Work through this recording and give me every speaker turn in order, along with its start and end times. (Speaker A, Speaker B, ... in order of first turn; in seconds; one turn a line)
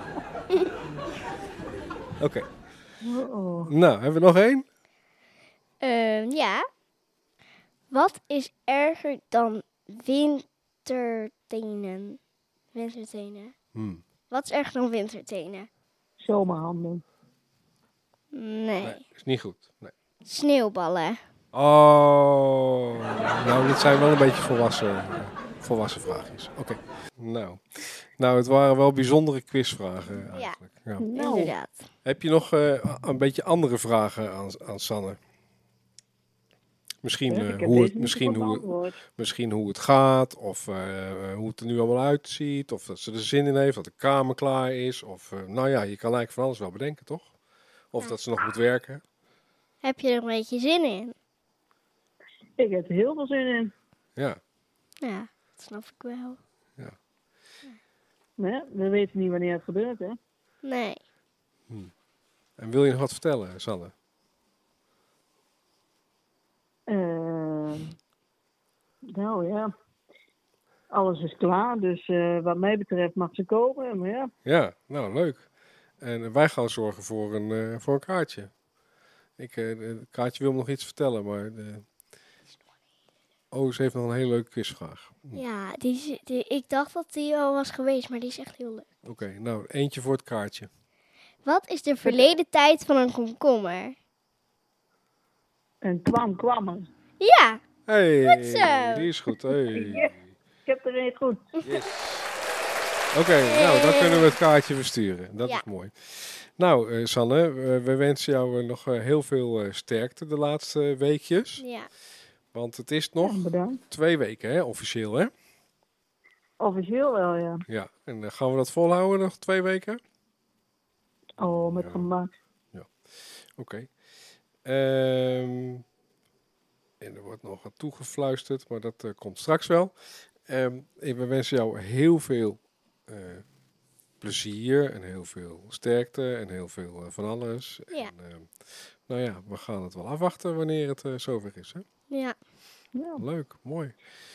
Speaker A: 2.2-2.5
Speaker B: 3.0-3.7
Speaker A: 3.6-4.6
Speaker C: 5.8-6.6
Speaker C: 7.9-12.2
Speaker C: 12.7-13.5
Speaker A: 13.7-14.0
Speaker C: 14.3-15.7
Speaker B: 16.2-17.0
Speaker C: 18.3-19.0
Speaker A: 18.8-19.9
Speaker C: 20.2-21.2
Speaker A: 21.5-31.1
Speaker B: 31.0-31.5
Speaker C: 31.1-31.9
Speaker A: 32.0-35.2
Speaker A: 37.0-47.3
Speaker B: 37.3-39.0
Speaker A: 47.9-49.0
Speaker C: 49.8-51.1
Speaker B: 52.6-53.7
Speaker C: 55.0-56.4
Speaker B: 58.4-60.2
Speaker C: 60.6-61.0
Speaker A: 62.6-63.9
Speaker B: 66.9-67.9
Speaker B: 69.1-69.7
Speaker B: 70.9-74.3
Speaker A: 74.4-75.5
Speaker A: 76.0-78.5
Speaker A: 79.4-81.8
Speaker A: 83.5-85.4
Speaker C: 85.3-88.9
Speaker A: 89.0-90.7
Speaker C: 91.4-94.0
Speaker B: 92.0-92.3
Speaker B: 95.8-96.9
Speaker C: 97.2-97.6
Speaker A: 97.9-100.2
Speaker C: 98.2-99.1
Speaker B: 99.5-100.1
Speaker B: 100.7-101.6
Speaker A: 101.6-102.3
Speaker A: 103.1-111.6
Speaker C: 103.5-104.3
Speaker C: 111.6-111.9
Speaker A: 112.5-115.3
Speaker B: 113.2-113.8
Speaker B: 116.6-117.6
Speaker A: 117.7-120.0
Speaker B: 121.4-122.3
Speaker A: 121.6-122.1
Speaker A: 123.5-123.9
Speaker A: 124.6-125.8
Speaker A: 127.0-129.9
Speaker A: 130.4-133.4
Speaker A: 134.2-138.5
Speaker A: 139.1-141.8
Speaker C: 142.1-142.3
Speaker B: 142.9-143.2
Speaker A: 143.2-143.9